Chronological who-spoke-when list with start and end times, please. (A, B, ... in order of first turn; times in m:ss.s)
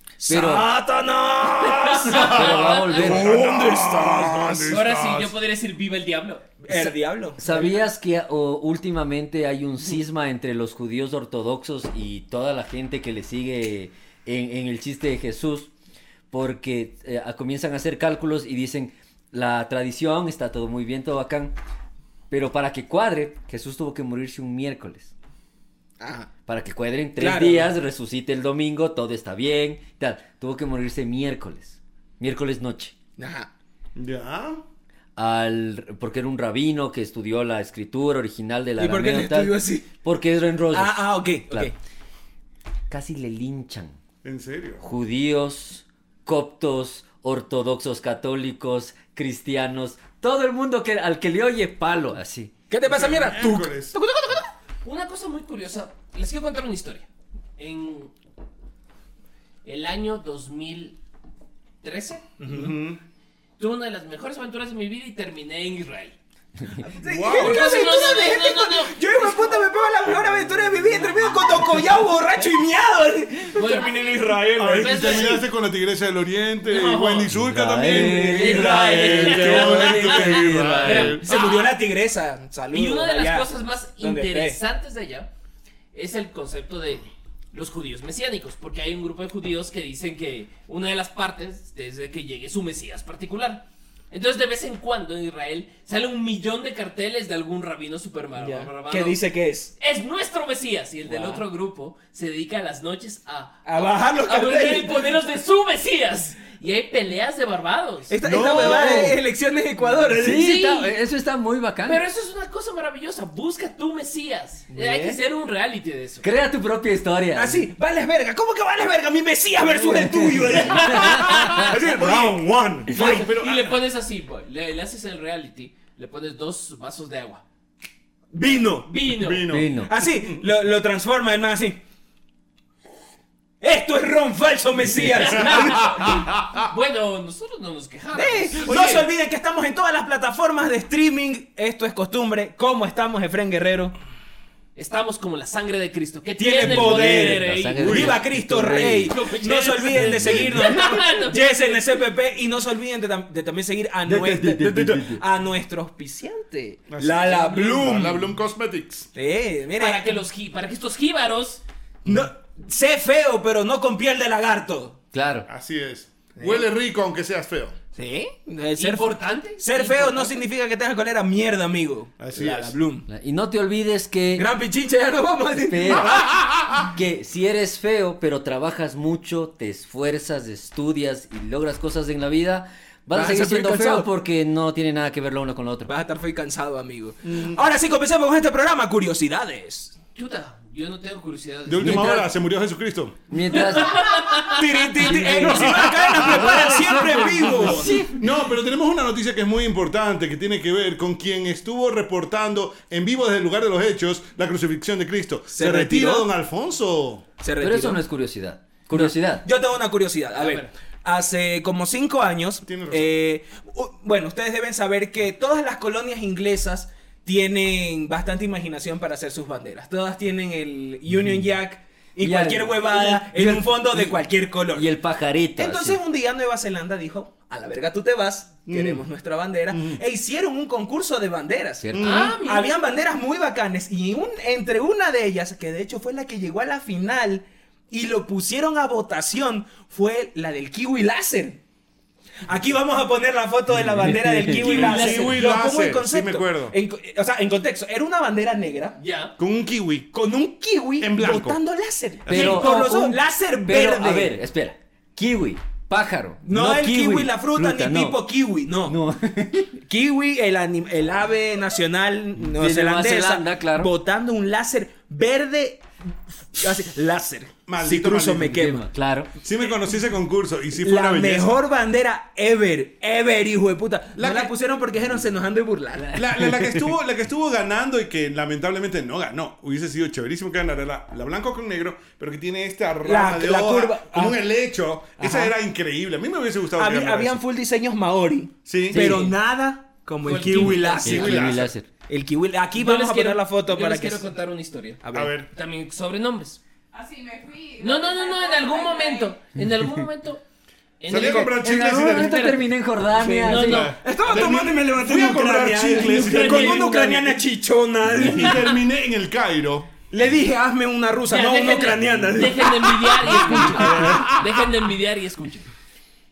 0:00.2-0:04.8 A
0:00.3-0:00.7 B
0:01.6-0:03.1 C
0:02.1-0:05.4 D
0:02.2-0:03.3 B
0:04.7-0:06.5 C
0:06.6-0:07.8 A
0:06.7-0:15.7 B
0:16.3-0:21.6 B
0:22.3-0:25.1 B
0:26.0-0:26.3 A
0:26.5-0:33.0 B
0:27.2-0:27.7 A
0:33.2-0:33.5 A
0:34.0-0:34.6 D
0:35.2-0:41.7 B
0:38.8-0:39.9 A
0:40.7-0:41.8 A
0:42.9-0:44.0 B
0:44.2-0:44.8 D
0:44.8-0:52.5 B
0:52.7-0:54.5 A
0:52.8-0:54.0 D
0:54.8-0:58.1 C
0:59.6-1:01.0 C
1:01.8-1:02.3 C
1:02.4-1:02.8 A
1:02.5-1:03.0 D
1:03.6-1:06.2 C
1:06.8-1:15.3 A
1:07.0-1:07.8 D
1:07.3-1:09.7 C
1:11.2-1:11.7 C
1:13.5-1:15.4 C
1:14.6-1:21.2 D
1:16.6-1:17.3 C
1:17.3-1:18.7 B
1:17.9-1:20.5 A
1:18.3-1:21.8 C
1:19.5-1:21.2 B
1:21.2-1:23.5 A
1:22.7-1:25.3 C
1:24.0-1:24.6 A
1:25.9-1:39.2 C
1:38.4-1:39.7 A
1:39.8-1:48.8 C
1:41.1-1:41.4 A
1:43.6-1:45.1 A
1:48.1-1:50.5 A
1:48.2-1:49.2 D
1:48.9-1:49.2 B
1:50.2-1:52.0 B
1:50.3-1:51.0 C
1:51.9-1:56.3 C
1:54.7-1:55.2 A
1:56.2-1:57.7 B
1:57.3-2:03.4 A
1:59.9-2:01.2 B
2:00.6-2:01.7 C
2:01.3-2:03.7 D
2:02.9-2:07.4 C
2:08.3-2:08.9 A
2:08.9-2:09.5 C
2:09.1-2:10.4 D
2:09.5-2:09.9 B
2:09.9-2:11.8 A
2:13.6-2:15.9 A
2:15.0-2:19.1 C
2:15.5-2:16.7 D
2:18.1-2:24.0 A
2:18.7-2:19.0 D
2:24.8-2:28.1 C
2:26.4-2:38.3 A
2:26.7-2:29.2 B
2:27.8-2:28.2 D
2:29.0-2:32.0 C
2:29.9-2:30.6 B
2:34.1-2:35.2 B
2:36.9-2:39.1 D
2:37.3-2:37.7 C
2:39.2-2:40.1 A
2:39.8-2:41.6 C
2:42.1-2:45.0 A
2:45.1-2:45.5 B
2:45.5-2:47.8 D
2:48.0-2:53.1 A
2:48.8-2:50.4 C
2:52.2-2:52.8 D
2:53.1-2:54.5 B
2:54.4-2:56.4 A
2:55.6-2:56.3 B
2:56.0-2:56.9 D
2:56.8-3:05.9 B
3:03.1-3:04.1 A
3:05.9-3:10.0 A
3:07.2-3:07.6 D
3:10.2-3:12.3 C
3:11.7-3:13.2 D
3:11.8-3:12.2 B
3:13.3-3:14.3 B
3:13.5-3:15.7 C
3:14.4-3:18.1 A
3:15.0-3:18.2 B
3:15.4-3:27.3 D
3:25.5-3:26.3 A
3:27.4-3:28.0 A
3:27.6-3:29.5 B
3:28.9-3:44.9 A
3:30.4-3:30.7 C
3:32.6-3:33.1 D
3:42.2-3:44.2 B
3:44.7-3:46.0 B
3:45.6-4:01.6 A
3:48.7-3:49.0 D
3:49.7-3:50.0 D
3:51.8-3:52.2 B
3:51.9-3:52.4 D
3:52.0-3:52.8 C
4:02.5-4:09.0 A
4:04.0-4:04.6 B
4:04.5-4:05.4 C
4:04.6-4:06.8 D
4:09.0-4:09.3 C
4:09.4-4:10.1 D
4:10.1-4:14.4 A
4:11.0-4:11.6 D
4:12.3-4:12.6 D
4:12.3-4:18.2 B
4:12.3-4:13.2 C
4:16.4-4:19.0 A
4:18.9-4:19.7 B
4:19.8-4:28.9 A
4:22.5-4:23.9 B
4:27.7-4:28.8 D
4:28.6-4:29.3 B
4:29.4-4:31.6 D
4:30.8-4:36.7 A
4:34.2-4:34.5 D
4:36.1-4:47.4 D
4:43.0-4:44.4 A
4:45.2-4:45.5 A
4:46.8-4:54.2 A
4:48.7-4:49.2 D
4:48.9-4:49.2 B
4:48.9-4:49.4 C
4:50.2-4:51.5 C
4:50.5-4:51.7 D
4:51.0-4:51.9 B
4:52.7-4:56.6 C
4:55.0-4:55.4 A
4:55.1-4:55.5 D
4:56.9-4:59.3 A
4:57.8-5:00.4 C
5:01.0-5:02.6 C
5:01.1-5:02.4 D
5:01.2-5:03.9 B
5:03.2-5:04.0 C
5:03.2-5:08.8 A
5:03.6-5:07.1 D
5:05.9-5:07.3 C
5:08.1-5:09.9 D
5:10.1-5:14.2 A
5:11.3-5:15.7 C
5:13.5-5:14.6 D